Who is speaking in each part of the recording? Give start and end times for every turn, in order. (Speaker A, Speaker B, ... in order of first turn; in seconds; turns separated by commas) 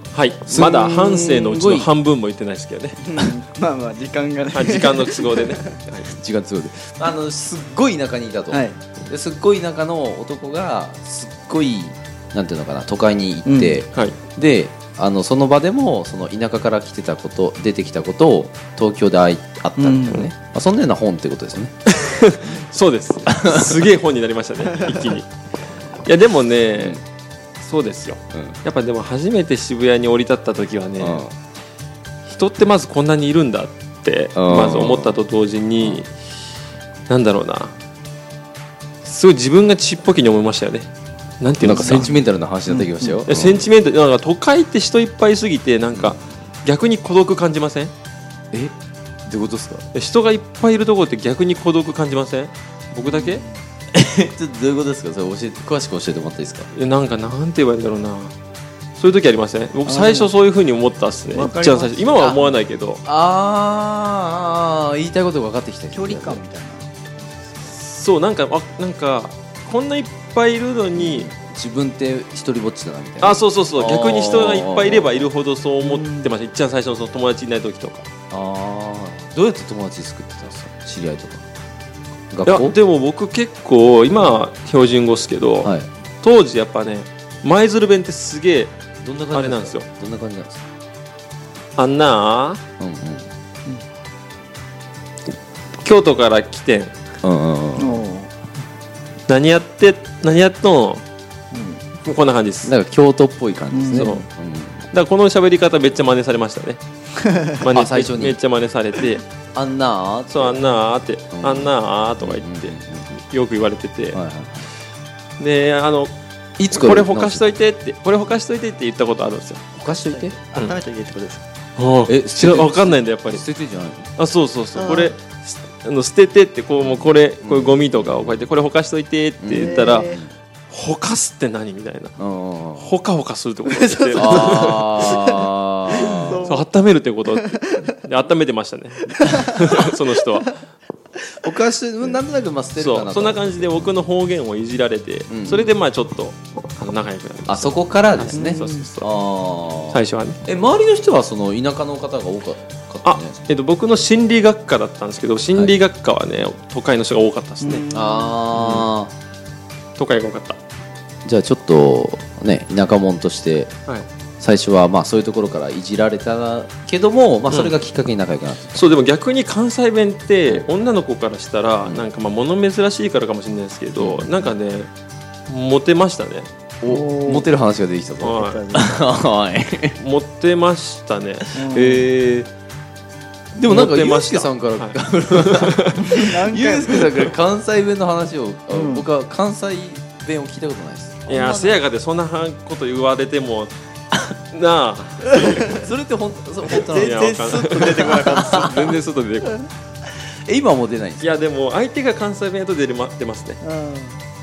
Speaker A: 0.1-3.3, Speaker B: 0.5-1.9, Speaker C: 3.0-5.8, Speaker A: 4.5-6.1, Speaker B: 6.0-21.7, Speaker C: 8.5-8.8, Speaker C: 13.4-13.8, Speaker A: 13.9-14.2, Speaker C: 19.8-20.2, Speaker A: 21.9-25.3, Speaker B: 23.3-23.8, Speaker A: 26.0-27.0, Speaker B: 26.7-27.0, Speaker A: 27.6-31.2, Speaker B: 28.3-28.6, Speaker B: 31.0-31.3, Speaker A: 32.3-36.1, Speaker B: 34.3-35.2, Speaker A: 37.1-37.7, Speaker A: 39.0-40.9, Speaker A: 41.4-42.1, Speaker B: 41.6-43.7, Speaker C: 41.7-42.0, Speaker C: 42.7-43.2, Speaker A: 43.3-47.9, Speaker B: 45.9-46.4, Speaker B: 49.3-49.9, Speaker A: 49.9-53.4, Speaker C: 53.0-53.6, Speaker B: 53.9-56.7, Speaker A: 56.7-58.3, Speaker A: 59.0-63.0, Speaker C: 59.8-60.3, Speaker C: 61.3-62.4, Speaker B: 62.2-62.5, Speaker B: 63.0-66.4, Speaker C: 65.9-66.9, Speaker A: 67.7-71.3, Speaker B: 70.9-75.3, Speaker A: 73.2-78.0, Speaker C: 75.8-76.3, Speaker B: 78.3-81.4, Speaker B: 82.3-82.8, Speaker A: 82.5-88.7, Speaker B: 85.6-85.9, Speaker B: 89.0-90.7, Speaker A: 89.3-89.9, Speaker A: 91.8-92.6, Speaker B: 92.8-93.2, Speaker A: 95.8-96.9, Speaker B: 97.2-98.0, Speaker C: 97.8-98.3, Speaker A: 99.3-101.0, Speaker C: 101.5-101.8, Speaker A: 102.0-102.7, Speaker B: 102.6-104.8, Speaker C: 103.7-104.2, Speaker A: 103.9-104.2, Speaker A: 104.9-106.8, Speaker C: 107.2-107.6, Speaker A: 107.5-109.2, Speaker B: 107.7-108.4, Speaker B: 109.5-110.7, Speaker A: 110.3-114.2, Speaker B: 111.3-113.1, Speaker B: 114.1-114.7, Speaker A: 115.4-116.1, Speaker B: 116.6-117.5, Speaker A: 116.7-119.6, Speaker B: 119.8-120.4, Speaker C: 120.1-121.4, Speaker A: 121.8-123.4, Speaker B: 122.1-124.1, Speaker A: 124.2-130.1, Speaker C: 124.7-125.1, Speaker B: 126.8-128.5, Speaker B: 129.4-130.3, Speaker C: 129.5-130.2, Speaker A: 130.7-132.2, Speaker B: 132.2-133.0, Speaker A: 132.7-135.4, Speaker C: 133.7-136.7, Speaker B: 134.1-136.5, Speaker A: 136.1-140.6, Speaker C: 137.4-137.8, Speaker C: 139.1-139.5, Speaker B: 141.4-143.9, Speaker A: 142.8-149.1, Speaker B: 145.3-145.7, Speaker B: 147.5-153.5, Speaker C: 148.3-148.9, Speaker A: 149.9-150.4, Speaker A: 153.0-157.8, Speaker C: 157.6-158.4, Speaker B: 157.9-159.1, Speaker A: 158.5-158.9, Speaker A: 160.0-160.6, Speaker B: 161.2-163.7, Speaker B: 164.4-168.8, Speaker A: 167.5-167.8, Speaker A: 168.7-174.9, Speaker B: 174.0-174.5, Speaker A: 175.5-176.5, Speaker B: 176.8-180.0, Speaker C: 176.8-177.5, Speaker A: 178.2-178.6, Speaker C: 178.3-179.0, Speaker A: 179.9-182.4, Speaker C: 181.5-182.1, Speaker B: 181.7-182.2, Speaker B: 183.5-191.8, Speaker A: 183.7-186.2, Speaker C: 186.0-187.2, Speaker C: 188.7-189.1, Speaker A: 191.3-193.7, Speaker A: 194.3-195.8, Speaker B: 195.7-199.0, Speaker C: 196.7-199.0, Speaker A: 196.7-199.7, Speaker B: 200.4-201.3, Speaker A: 201.2-203.6, Speaker C: 203.6-204.2